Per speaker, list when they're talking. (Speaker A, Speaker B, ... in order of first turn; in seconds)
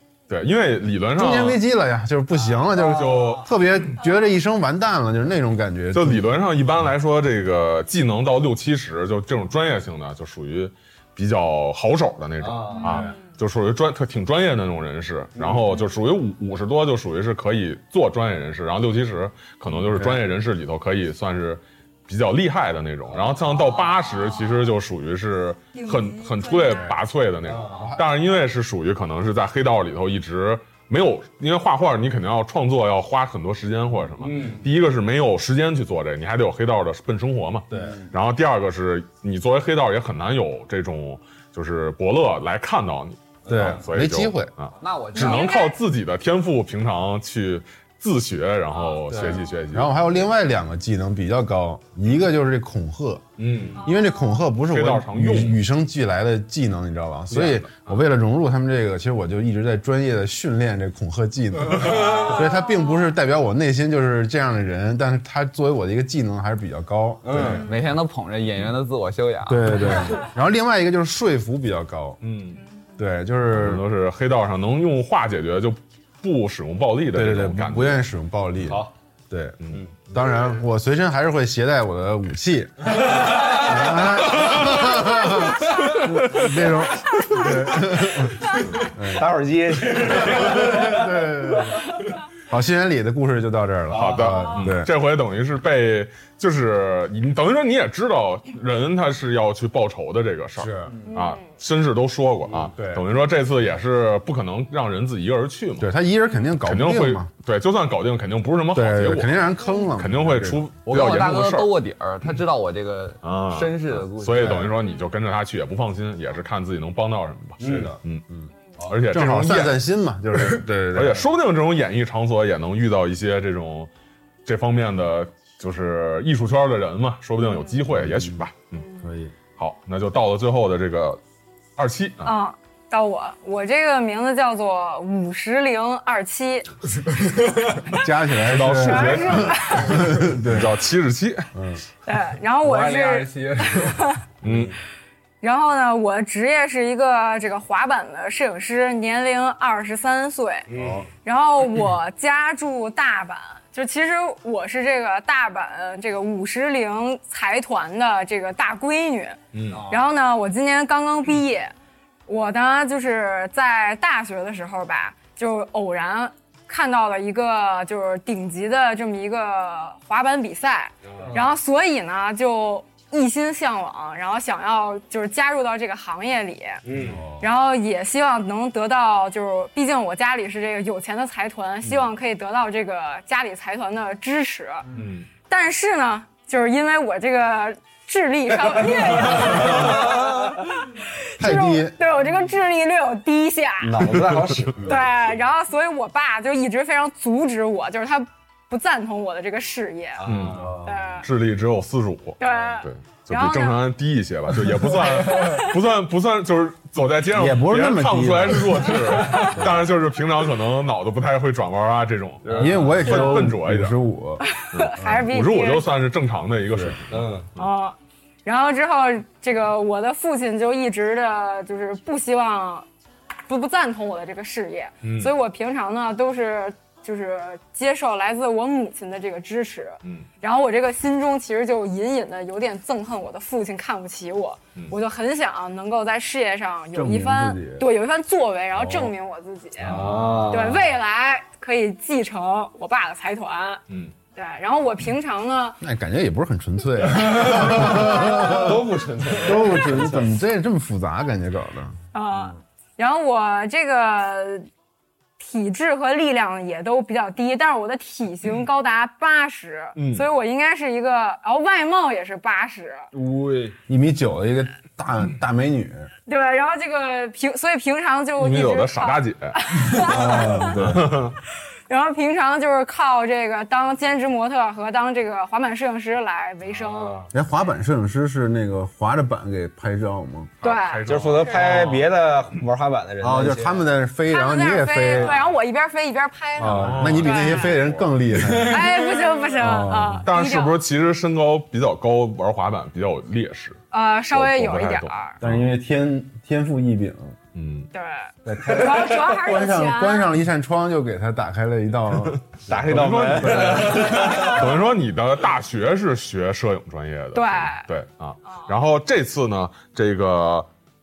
Speaker A: 0.3-1.6, 2.7-3.5, 5.9-50.0, 53.4-53.9, 54.6-55.6, 57.4-57.9, 61.9-62.1, 72.2-72.6, 73.5-78.0, 93.9-105.9, 106.6-109.3, 110.0-111.7, 113.2-118.2, 118.8-119.8, 120.9-123.9, 124.5-128.8, 129.6-131.2, 131.8-132.4, 138.4-141.5, 144.4-144.7, 159.5-159.8, 184.9-185.3, 200.2-200.6, 201.2-213.9, 214.7-217.7, 225.0-225.3, 239.8-240.5, 243.9-244.1, 259.9-260.3, 268.4-270.0, 270.6-271.4, 280.6-282.1, 286.7-288.1, 290.3-295.7, 297.5-297.9, 302.7-310.7
Speaker B: 1.1-6.3, 27.7-28.0, 43.5-44.5, 49.1-53.2, 53.8-67.6, 69.5-72.2, 73.0-73.8, 77.1-79.6, 80.1-94.9, 100.6-100.9, 102.6-103.0, 105.8-107.3, 108.7-110.6, 117.6-118.0, 119.1-121.3, 127.9-128.4, 129.0-129.3, 137.9-140.8, 141.5-141.8, 150.7-151.1, 177.0-177.4, 191.4-192.0, 200.6-200.9, 207.3-209.8, 212.5-214.4, 216.7-217.0, 236.9-237.8, 238.7-239.1, 245.8-251.9, 263.7-266.1, 269.9-271.1, 277.3-280.5, 283.2-285.4, 286.6-289.0, 289.6-290.2, 295.4-297.4, 298.5-304.2
Speaker C: 2.7-3.4, 12.4-13.1, 15.3-15.8, 23.1-23.4, 27.4-27.9, 34.2-34.6, 43.4-43.8, 67.2-67.6, 89.0-91.1, 93.9-94.3, 117.6-117.9, 144.4-144.7, 150.7-151.1, 171.1-171.4, 176.8-177.3, 188.6-190.2, 193.8-195.1, 200.2-200.9, 212.4-213.0, 217.1-217.5, 239.8-240.9, 247.2-250.3, 276.7-277.3, 281.1-283.9, 288.5-289.2, 298.5-299.2, 302.7-304.7
Speaker D: 12.8-13.1, 23.7-24.4, 25.7-26.9, 45.1-45.8, 53.8-54.4, 101.1-101.4, 127.4-127.8, 128.7-129.1, 132.2-136.8, 138.8-140.0, 142.1-144.2, 145.4-150.7, 151.2-161.7, 162.3-176.8, 177.4-184.9, 185.4-194.0, 194.8-200.3, 200.8-201.3, 202.4-203.8, 205.1-205.7, 209.1-209.7, 213.1-213.3, 214.4-215.9, 217.6-222.8, 223.5-243.8, 244.3-245.8, 248.1-248.6, 252.1-254.7, 255.4-263.1, 266.3-270.8, 271.9-277.2, 280.6-281.8, 284.3-287.8, 288.6-290.8, 293.9-295.4, 297.9-300.3, 307.3-307.9
Speaker E: 44.8-45.6, 67.6-69.9, 110.9-114.7, 142.6-144.0, 159.7-160.0